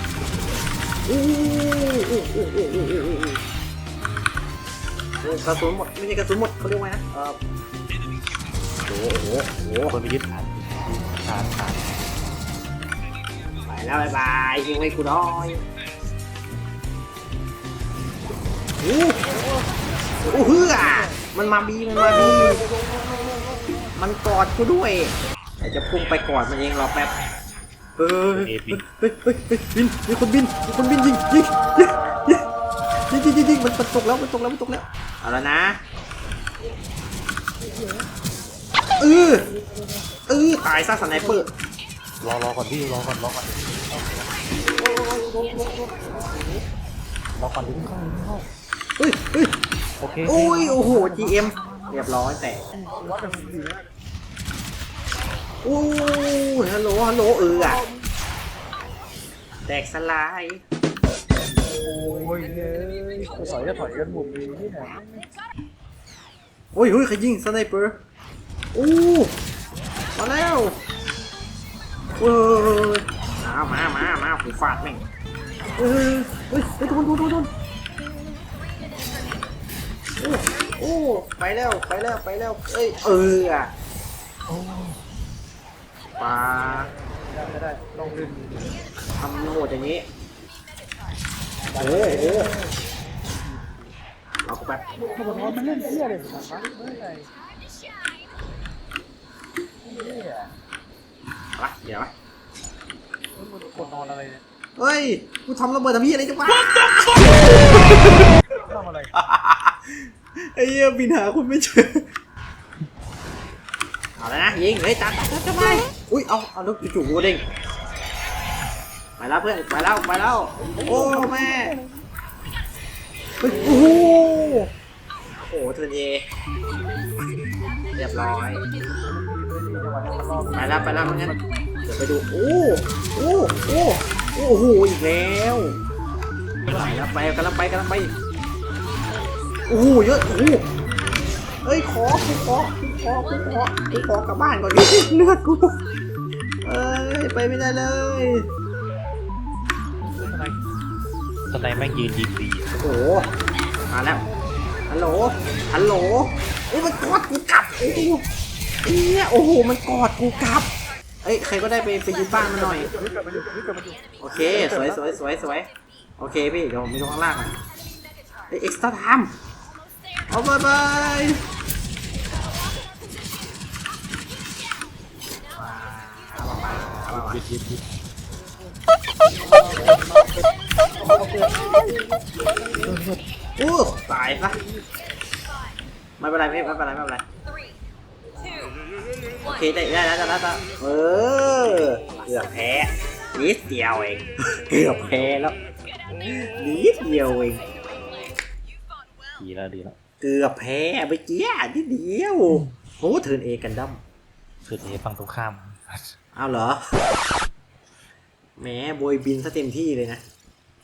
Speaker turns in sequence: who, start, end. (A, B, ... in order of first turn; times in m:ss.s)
0:01.1-0:03.4 A
0:05.2-0:07.4 A
0:08.8-0:10.0 A
0:09.9-0:11.9 B
0:13.6-0:15.6 A
0:18.8-0:19.2 A
0:19.3-0:19.6 C
0:20.2-0:21.2 C
0:20.3-0:22.6 A
0:22.1-0:23.9 C
0:24.0-0:27.2 A
0:28.0-0:32.4 A
0:28.3-0:28.8 B
0:33.1-0:35.8 A
0:39.0-0:39.5 A
0:40.3-0:41.5 A
0:42.2-0:44.3 B
0:45.0-0:45.8 C
0:47.4-0:48.5 B
0:49.0-0:49.6 A
0:50.0-0:52.1 B
0:50.2-0:52.6 A
0:52.8-0:53.9 C
0:55.6-0:57.8 A
0:57.5-0:57.9 C
0:59.7-1:00.6 A
1:01.5-1:05.3 C
1:06.7-1:08.0 A
1:08.7-1:09.4 A
1:10.2-1:10.8 A
1:12.2-1:15.0 A
1:15.7-1:17.5 A
1:20.2-1:23.7 A
1:26.2-1:26.9 A
1:27.3-1:28.7 C
1:29.2-1:30.1 A
1:31.6-1:32.8 C
1:31.8-1:32.5 A
1:34.4-1:34.8 A
1:35.0-1:37.3 C
1:39.9-1:40.5 C
1:41.6-1:42.1 A
1:43.4-1:44.4 C
1:44.8-1:48.2 A
1:48.5-1:49.1 C
1:49.2-1:52.1 A
1:54.2-1:57.4 A
1:59.2-2:01.8 A
2:00.6-2:01.9 C
2:03.4-2:04.7 A
2:05.3-2:06.3 A
2:07.9-2:08.6 A
2:09.0-2:11.4 C
2:10.5-2:15.8 A
2:16.6-2:17.0 B
2:16.7-2:18.1 A
2:19.6-2:20.7 A
2:21.6-2:25.8 A
2:26.6-2:28.5 A
2:31.5-2:32.8 B
2:32.8-2:33.3 A
2:33.9-2:34.2 A
2:34.9-2:38.2 A
2:38.8-2:42.9 A
2:42.3-2:45.1 C
2:44.2-2:47.6 A
2:48.5-2:49.4 A
2:50.3-2:51.5 A
2:55.5-2:57.4 A
2:57.1-2:57.8 B
2:59.4-3:00.4 C
3:01.0-3:01.7 C
3:02.7-3:02.9 C
3:02.8-3:03.2 B
3:03.6-3:04.6 A
3:06.2-3:07.2 A
3:09.4-3:15.6 A
3:16.2-3:17.7 A
3:19.4-3:20.0 B
3:20.2-3:24.0 A
3:24.6-3:26.1 B
3:26.3-3:26.8 A
3:28.6-3:30.2 A